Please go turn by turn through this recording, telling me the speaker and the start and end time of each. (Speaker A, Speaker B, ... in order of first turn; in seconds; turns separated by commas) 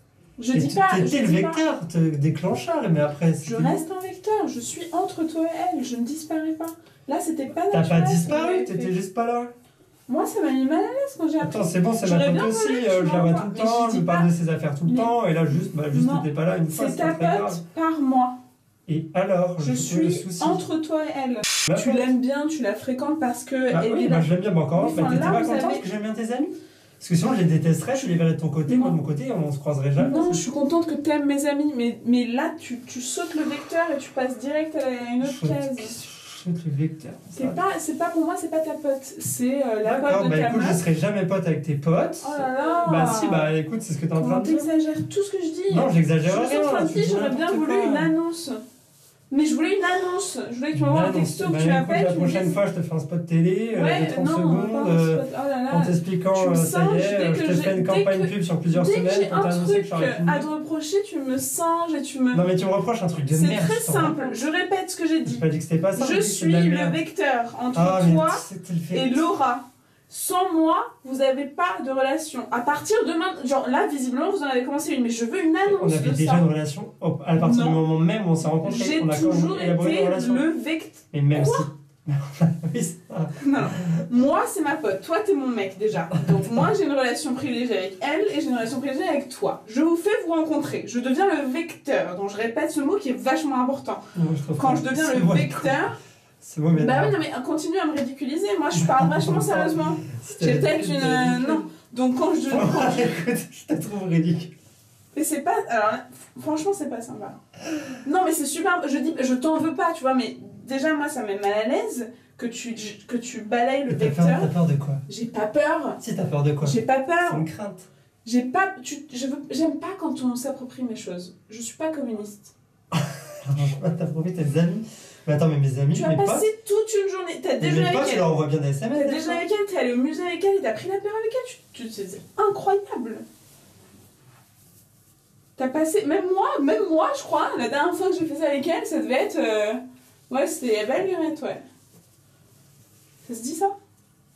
Speaker A: 0.4-1.6, Speaker B: 0.5-3.8, Speaker A: 3.4-8.9, Speaker B: 7.7-9.5, Speaker A: 10.1-14.3, Speaker B: 11.4-17.6, Speaker A: 15.9-18.3, Speaker B: 18.9-20.6, Speaker A: 19.6-25.8, Speaker B: 21.7-22.1, Speaker B: 23.7-30.4, Speaker A: 28.7-29.0, Speaker A: 30.0-35.9, Speaker B: 35.2-37.6, Speaker A: 37.4-40.8, Speaker B: 39.8-44.7, Speaker A: 42.2-43.5, Speaker A: 44.1-48.6, Speaker B: 45.7-48.1, Speaker A: 49.3-52.6, Speaker B: 50.7-60.5, Speaker A: 53.7-62.4, Speaker B: 62.3-64.4, Speaker A: 63.3-65.4, Speaker B: 65.2-67.0, Speaker A: 66.0-76.5, Speaker B: 67.7-69.2, Speaker B: 75.6-80.5, Speaker A: 77.3-77.8, Speaker A: 78.6-81.7, Speaker B: 81.1-84.0, Speaker A: 83.4-96.0, Speaker B: 86.1-86.7, Speaker B: 94.1-95.8, Speaker B: 96.4-97.2, Speaker A: 96.7-103.2, Speaker B: 98.7-101.6, Speaker B: 102.5-104.5, Speaker A: 105.1-107.3, Speaker A: 108.0-114.5, Speaker B: 113.9-115.0, Speaker A: 115.1-116.0, Speaker B: 116.0-117.9, Speaker A: 116.6-117.5, Speaker A: 118.2-122.5, Speaker B: 122.9-126.5, Speaker A: 125.9-128.3, Speaker B: 127.6-129.4, Speaker A: 128.9-133.2, Speaker A: 135.6-141.6, Speaker A: 143.2-143.7